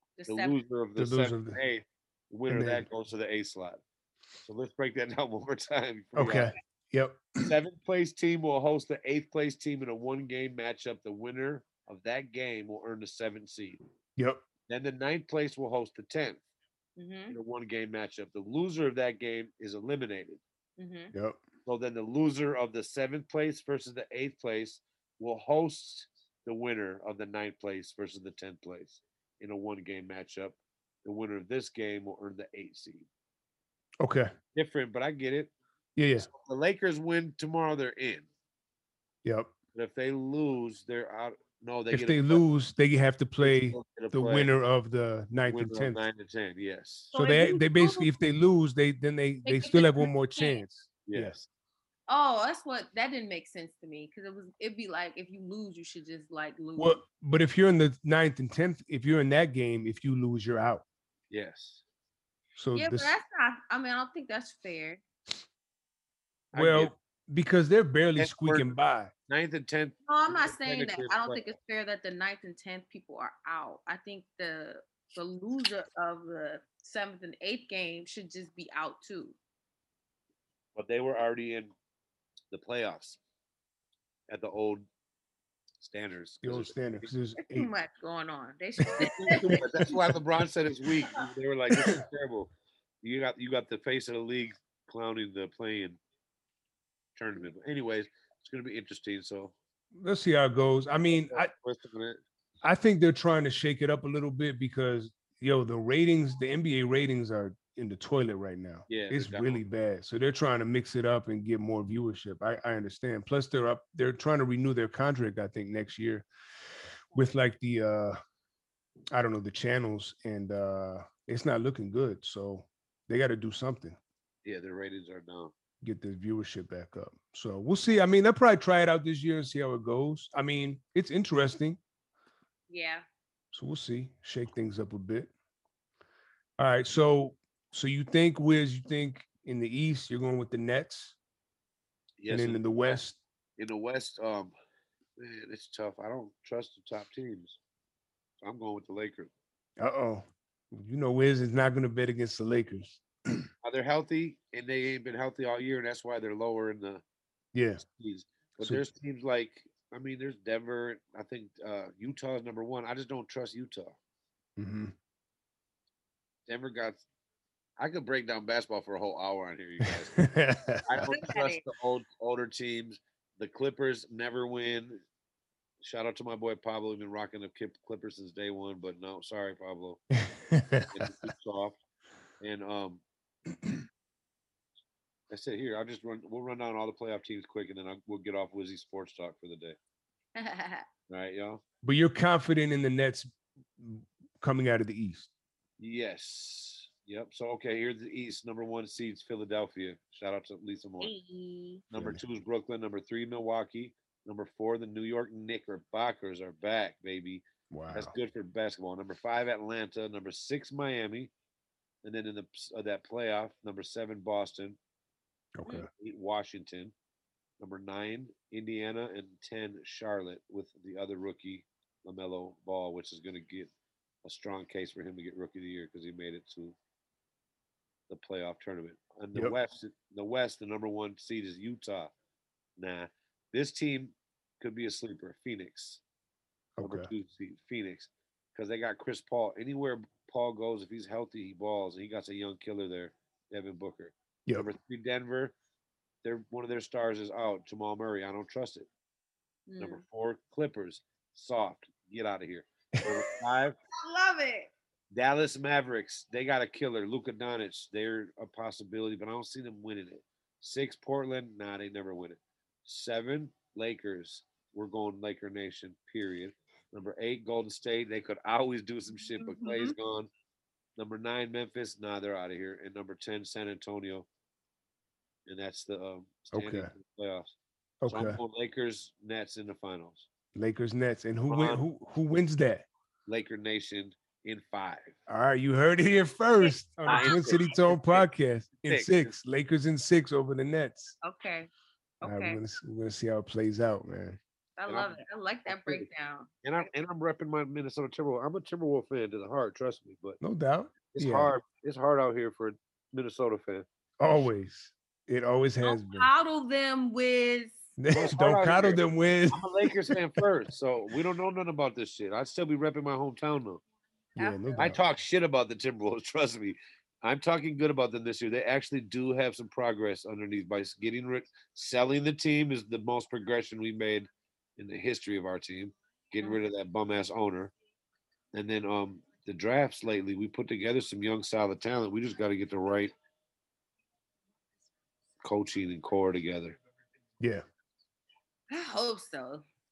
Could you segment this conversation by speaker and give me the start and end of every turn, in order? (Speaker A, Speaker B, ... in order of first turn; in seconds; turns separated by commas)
Speaker A: 0.2-0.6, Speaker B: 0.3-3.8, Speaker C: 0.9-1.6, Speaker C: 2.5-2.9, Speaker B: 4.4-6.5, Speaker C: 6.1-7.5, Speaker B: 7.4-13.8, Speaker C: 14.2-14.4, Speaker B: 14.7-16.4, Speaker A: 17.0-17.4, Speaker B: 17.3-20.4, Speaker A: 20.8-21.1, Speaker C: 21.1-21.4, Speaker B: 21.6-33.1, Speaker C: 34.0-34.3, Speaker B: 34.5-35.5, Speaker C: 36.0-36.3, Speaker B: 36.1-38.3, Speaker C: 39.2-39.5, Speaker B: 39.7-42.4, Speaker C: 41.9-46.0, Speaker B: 43.4-44.5, Speaker B: 45.5-47.1, Speaker A: 47.1-48.1, Speaker C: 47.1-51.5, Speaker A: 49.4-50.6, Speaker B: 51.0-51.4, Speaker A: 52.1-57.0, Speaker C: 56.8-60.8, Speaker B: 61.3-61.8, Speaker C: 62.5-63.1, Speaker A: 62.7-65.0, Speaker B: 66.5-66.9, Speaker C: 66.5-69.1, Speaker B: 68.2-68.7, Speaker B: 69.3-71.5, Speaker A: 70.1-79.3, Speaker B: 80.7-81.7, Speaker B: 82.5-83.2, Speaker B: 84.3-84.9, Speaker B: 85.8-87.0, Speaker C: 86.4-87.7, Speaker A: 87.4-89.6, Speaker C: 88.8-90.1, Speaker B: 89.0-96.0, Speaker B: 97.1-99.5, Speaker C: 100.0-101.5, Speaker B: 101.0-102.2, Speaker C: 102.6-116.3, Speaker B: 108.9-109.6, Speaker C: 117.1-118.2, Speaker C: 119.1-124.0, Speaker B: 124.4-125.5, Speaker C: 125.8-131.8, Speaker A: 132.7-133.1, Speaker C: 133.5-135.3, Speaker C: 136.6-141.2, Speaker B: 142.2-143.0, Speaker C: 142.3-143.2, Speaker B: 143.6-144.5, Speaker B: 145.2-147.6, Speaker B: 148.4-149.3, Speaker C: 149.8-153.0, Speaker B: 153.6-157.0, Speaker C: 157.5-157.8, Speaker B: 157.8-164.0, Speaker C: 164.6-164.9, Speaker B: 166.4-167.0, Speaker B: 167.8-170.3, Speaker C: 169.8-171.0, Speaker B: 170.8-175.0, Speaker A: 171.0-171.6, Speaker B: 175.8-180.1, Speaker C: 180.5-181.1, Speaker B: 180.9-181.8, Speaker B: 182.4-183.0, Speaker B: 185.3-189.8, Speaker A: 190.3-190.8, Speaker B: 191.1-191.6, Speaker C: 191.8-195.3, Speaker B: 195.8-201.1, Speaker A: 201.0-201.8, Speaker B: 201.9-211.3, Speaker C: 201.9-202.2, Speaker C: 207.7-208.1, Speaker B: 212.0-214.8, Speaker C: 215.6-215.9, Speaker B: 215.9-216.9, Speaker B: 217.6-223.7, Speaker B: 224.2-226.8, Speaker B: 228.1-232.1, Speaker B: 232.8-236.0, Speaker C: 236.8-237.1, Speaker B: 236.8-245.5, Speaker B: 246.2-248.9, Speaker A: 249.7-250.0, Speaker B: 249.8-253.8, Speaker A: 253.9-254.7, Speaker B: 255.1-270.3, Speaker A: 269.4-269.9, Speaker B: 271.0-274.3, Speaker B: 275.4-277.5, Speaker C: 276.5-276.9, Speaker C: 278.0-278.4, Speaker B: 278.1-280.3, Speaker C: 280.5-282.9, Speaker B: 281.5-281.8, Speaker B: 283.2-285.1, Speaker C: 285.3-291.2, Speaker A: 286.6-287.6, Speaker B: 287.1-289.4, Speaker A: 291.2-291.7, Speaker A: 292.2-292.6, Speaker C: 292.2-294.4, Speaker A: 294.8-296.5, Speaker B: 294.9-295.1, Speaker B: 295.7-296.1, Speaker B: 296.6-300.4, Speaker C: 300.4-301.5, Speaker B: 301.1-303.9, Speaker C: 304.2-306.3, Speaker A: 305.8-307.8, Speaker C: 308.0-310.2, Speaker B: 308.1-313.8, Speaker A: 314.4-314.9, Speaker C: 314.4-315.0, Speaker B: 314.8-327.7, Speaker B: 328.5-333.1, Speaker B: 335.4-336.8, Speaker C: 337.4-337.6, Speaker A: 338.7-339.6